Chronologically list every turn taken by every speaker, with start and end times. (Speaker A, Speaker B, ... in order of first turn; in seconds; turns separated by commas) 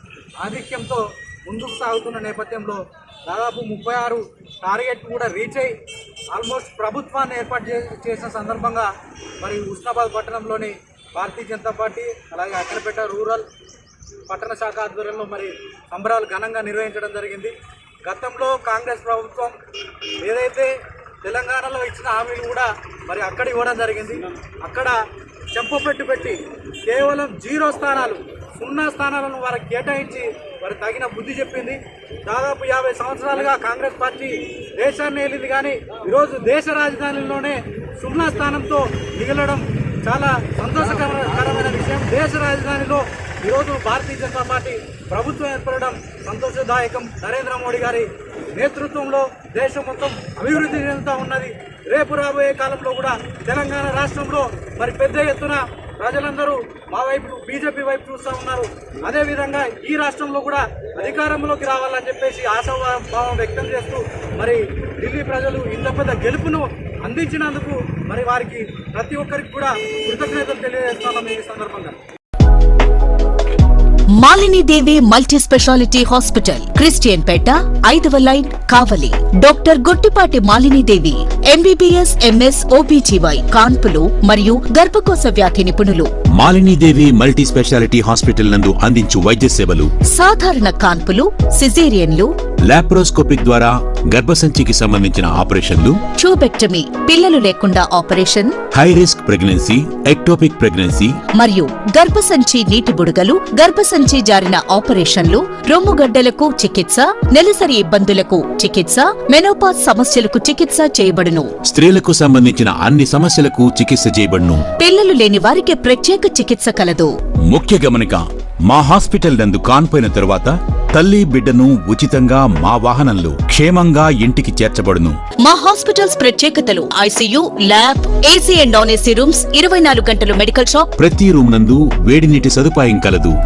Speaker A: 0.4-5.7, Speaker A: 6.3-8.9, Speaker A: 9.4-13.5, Speaker A: 14.3-17.5, Speaker A: 18.1-19.6, Speaker A: 20.2-20.7, Speaker A: 21.2-25.0, Speaker A: 25.5-72.0, Speaker B: 74.2-86.1, Speaker C: 86.4-89.9, Speaker B: 90.1-92.3, Speaker C: 92.7-96.0, Speaker B: 96.2-98.6, Speaker C: 98.7-101.2, Speaker B: 101.3-111.5, Speaker C: 111.7-114.7, Speaker B: 114.8-117.1, Speaker C: 117.5-125.2, Speaker B: 125.4-130.9, Speaker C: 131.0-133.3